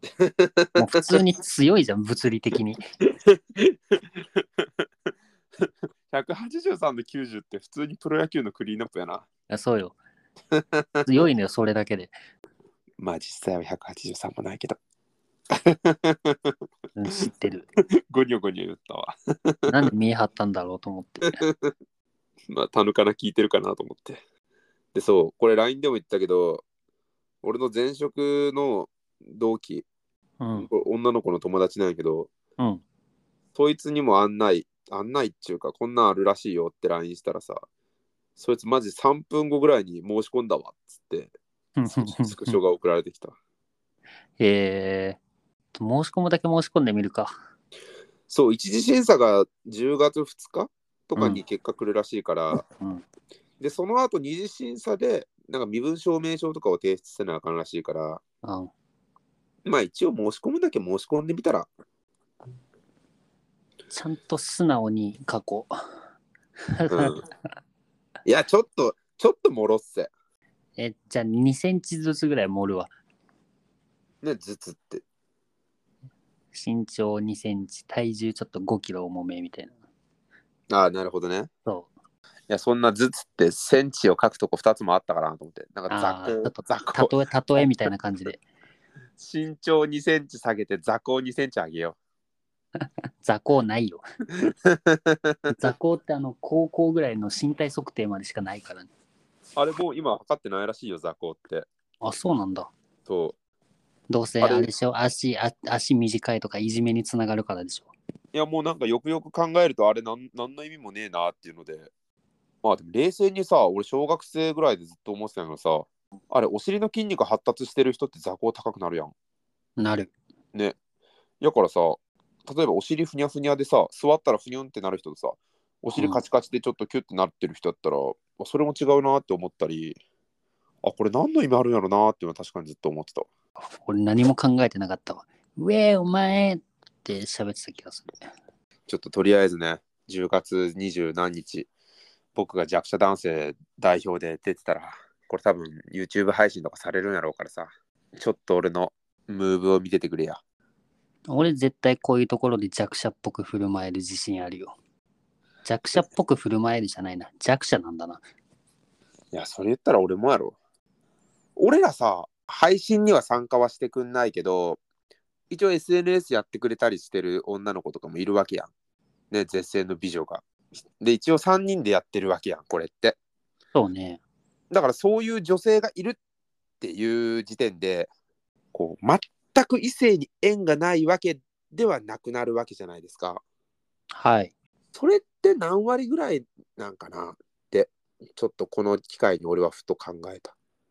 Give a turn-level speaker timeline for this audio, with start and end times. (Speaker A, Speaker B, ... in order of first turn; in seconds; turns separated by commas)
Speaker A: 0.2-1.2, Speaker B: 0.8-2.8, Speaker A: 3.0-4.7, Speaker A: 5.6-9.2, Speaker B: 9.5-9.9, Speaker A: 10.5-11.1, Speaker B: 11.0-12.1, Speaker A: 13.0-14.8, Speaker A: 15.5-16.6, Speaker B: 16.9-17.7, Speaker A: 18.1-19.8, Speaker B: 19.7-21.4, Speaker A: 21.3-21.7, Speaker A: 22.5-24.2, Speaker A: 24.9-26.6, Speaker A: 27.4-29.9, Speaker B: 30.4-30.7, Speaker A: 30.6-32.3, Speaker A: 33.5-37.6, Speaker A: 38.4-41.3, Speaker B: 41.8-42.6, Speaker A: 41.9-43.4, Speaker B: 44.4-45.2, Speaker B: 45.7-47.3, Speaker A: 48.3-52.6, Speaker B: 51.2-51.4, Speaker B: 52.5-53.0, Speaker A: 53.6-58.2, Speaker B: 58.4-58.7, Speaker A: 59.6-61.7, Speaker B: 63.9-65.7, Speaker B: 66.7-67.2, Speaker A: 66.9-67.2, Speaker A: 68.2-70.1, Speaker B: 70.8-72.9, Speaker A: 74.2-75.0, Speaker B: 76.5-79.7, Speaker A: 80.7-81.5, Speaker B: 81.7-81.9, Speaker A: 82.5-87.7, Speaker B: 85.9-88.4, Speaker A: 89.2-92.0, Speaker B: 92.8-94.0, Speaker A: 94.4-95.5, Speaker B: 95.5-98.9, Speaker A: 99.5-101.7, Speaker B: 102.0-102.7, Speaker A: 103.0-103.3, Speaker B: 104.1-107.9, Speaker A: 104.4-104.7, Speaker A: 108.3-111.9, Speaker A: 112.6-119.1, Speaker B: 119.8-120.1, Speaker A: 121.4-130.0, Speaker B: 125.9-126.2, Speaker A: 130.8-133.3, Speaker B: 133.8-138.3, Speaker A: 138.9-141.7, Speaker A: 142.3-150.4, Speaker B: 151.3-154.7, Speaker B: 155.6-158.2, Speaker A: 159.3-160.6, Speaker A: 161.6-164.8, Speaker A: 165.5-168.7, Speaker A: 169.3-170.4, Speaker A: 171.0-173.2, Speaker B: 173.7-174.2, Speaker A: 174.7-176.2, Speaker A: 176.8-178.1, Speaker A: 178.7-183.4, Speaker B: 184.1-184.5, Speaker A: 184.9-190.5